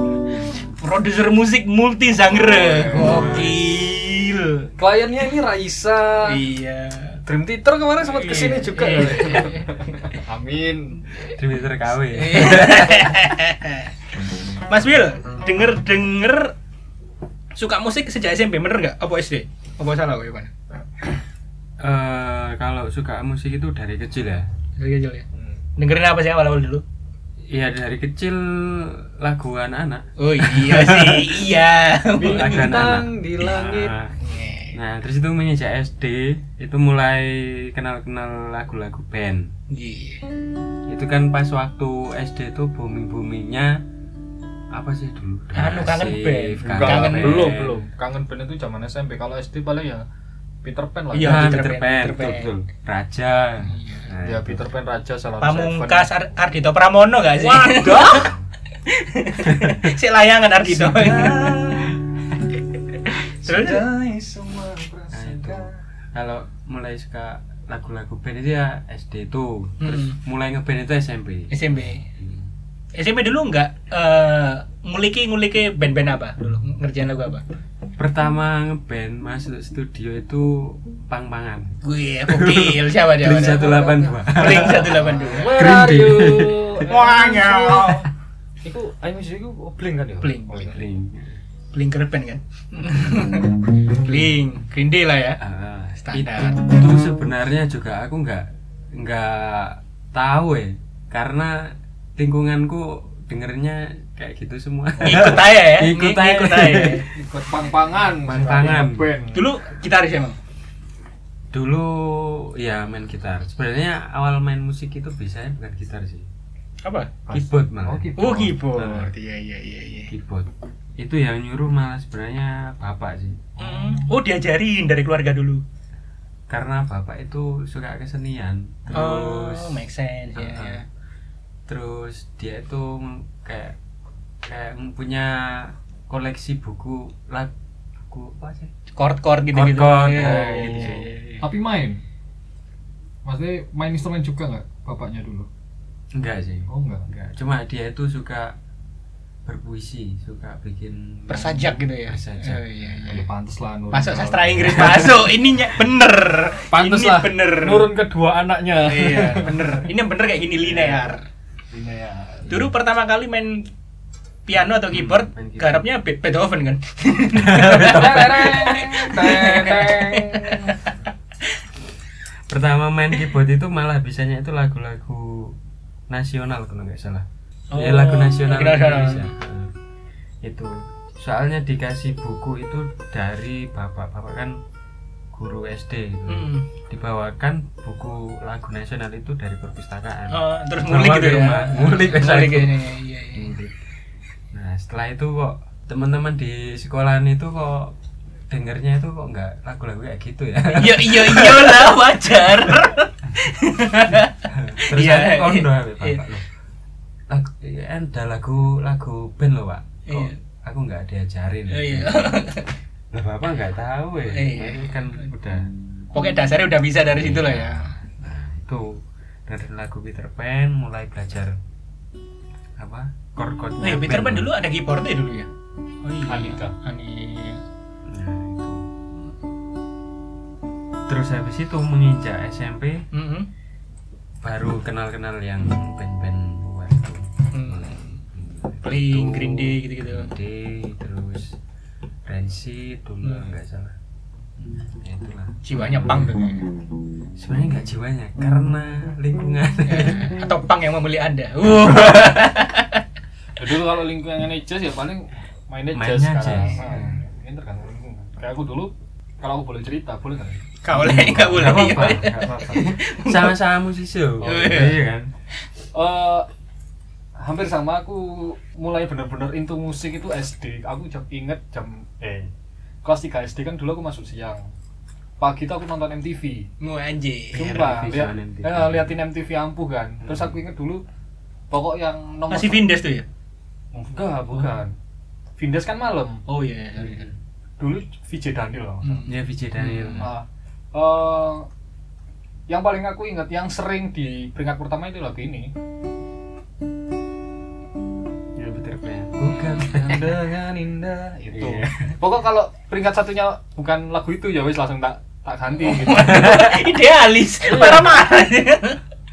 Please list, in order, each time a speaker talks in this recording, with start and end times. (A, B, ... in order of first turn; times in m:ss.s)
0:00.4-0:04.7 A
0:02.5-0:03.5 B
0:02.8-0:03.6 C
0:04.8-0:06.4 B
0:06.2-0:07.2 A
0:07.2-0:11.1 B
0:08.1-0:09.7 A
0:11.2-0:13.2 C
0:12.1-0:16.6 A
0:17.6-0:20.5 A
0:21.8-0:24.5 C
0:24.8-0:25.3 A
0:25.3-0:25.6 B
0:25.8-0:26.8 A
0:27.5-0:31.4 C
0:30.2-0:32.7 A
0:32.2-0:33.9 B
0:32.2-0:34.2 C
0:34.2-0:34.8 A
0:34.7-0:39.5 C
0:39.7-0:40.3 A
0:40.9-0:43.8 C
0:44.7-0:47.8 C
0:45.5-0:47.6 A
0:46.7-0:50.0 B
0:50.6-0:51.5 B
0:51.1-0:52.5 A
0:51.2-0:54.6 C
0:53.6-0:54.1 A
0:54.2-0:56.1 B
0:55.4-0:58.3 A
0:57.4-0:58.4 B
0:58.1-0:58.4 C
0:58.9-1:01.6 A
0:59.4-1:00.0 C
1:00.6-1:02.0 B
1:03.4-1:05.8 B
1:03.4-1:03.8 A
1:05.1-1:12.5 C
1:09.8-1:10.2 A
1:11.5-1:12.0 A
1:13.0-1:17.4 A
1:18.0-1:26.8 C
1:21.8-1:25.7 A
1:25.0-1:28.1 B
1:26.9-1:28.1 A
1:28.6-1:30.8 B
1:30.2-1:30.8 A
1:30.6-1:31.4 C
1:31.7-1:35.4 A
1:35.4-1:47.0 C
1:36.0-1:36.6 A
1:45.0-1:45.3 B
1:45.0-1:47.1 A
1:47.1-1:49.5 B
1:48.2-1:49.1 C
1:49.3-1:50.4 A
1:51.5-1:56.3 C
1:56.8-1:57.1 A
1:57.3-1:58.6 B
1:57.3-1:59.1 C
1:58.2-2:00.1 A
2:00.1-2:03.5 C
2:03.6-2:04.1 B
2:03.6-2:05.6 A
2:06.5-2:10.8 C
2:08.9-2:10.8 A
2:11.7-2:13.8 C
2:14.4-2:18.7 C
2:18.9-2:21.4 A
2:19.5-2:21.1 C
2:20.2-2:22.0 B
2:23.2-2:25.5 B
2:26.1-2:28.6 C
2:26.7-2:27.1 B
2:29.5-2:33.1 C
2:31.3-2:33.3 A
2:33.0-2:35.2 B
2:33.9-2:37.9 A
2:34.6-2:35.2 C
2:36.7-2:39.9 B
2:38.9-2:41.2 A
2:40.6-2:41.1 B
2:41.7-2:42.6 B
2:42.5-2:43.7 A
2:44.5-2:50.9 A
2:44.9-2:45.8 C
2:47.3-2:48.5 C
2:47.7-2:50.9 B
2:52.5-2:55.6 C
2:56.1-2:59.8 C
2:57.7-2:59.3 A
3:00.4-3:04.6 C
3:05.3-3:13.8 C
3:06.3-3:06.7 A
3:10.3-3:13.6 A
3:14.5-3:18.0 C
3:18.5-3:22.0 C
3:20.7-3:26.3 A
3:24.4-3:26.5 C
3:27.3-3:32.4 C
3:30.1-3:30.4 A
3:31.7-3:32.7 A
3:33.1-3:35.7 C
3:34.3-3:35.1 A
3:36.1-3:38.0 A
3:37.1-3:41.6 C
3:42.8-3:44.5 C
3:43.8-3:45.5 A
3:46.0-3:47.6 A
3:46.3-3:46.8 B
3:48.1-3:49.0 C
3:51.1-3:53.0 C
3:53.1-3:53.5 A
3:54.4-4:01.6 C
3:57.5-3:58.0 A
3:58.8-4:00.3 A
4:02.3-4:04.0 C
4:03.2-4:03.5 A
4:04.6-4:06.4 C
4:05.6-4:06.6 A
4:07.4-4:10.4 C
4:09.9-4:13.0 A
4:11.7-4:12.3 C
4:13.6-4:20.7 B
4:15.9-4:17.2 C
4:20.8-4:23.6 A
4:20.9-4:25.3 C
4:24.4-4:25.0 A
4:25.9-4:26.5 B
4:27.4-4:32.5 B
4:33.0-4:34.6 B
4:35.4-4:36.7 B
4:36.8-4:37.8 A
4:37.5-4:41.0 B
4:37.6-4:39.1 C
4:40.2-4:40.6 C
4:41.7-4:42.9 B
4:42.5-4:43.3 A
4:43.9-4:45.0 B
4:45.6-4:46.4 B
4:46.5-4:47.3 A
4:47.0-4:47.4 C
4:47.8-4:49.3 B
4:49.0-4:50.3 A
4:49.3-4:50.3 C
4:50.2-4:51.7 B
4:52.7-4:55.7 B
4:58.6-5:00.4 C
4:59.8-5:06.8 B
5:01.5-5:02.1 C
5:05.8-5:09.0 A
5:07.6-5:08.2 B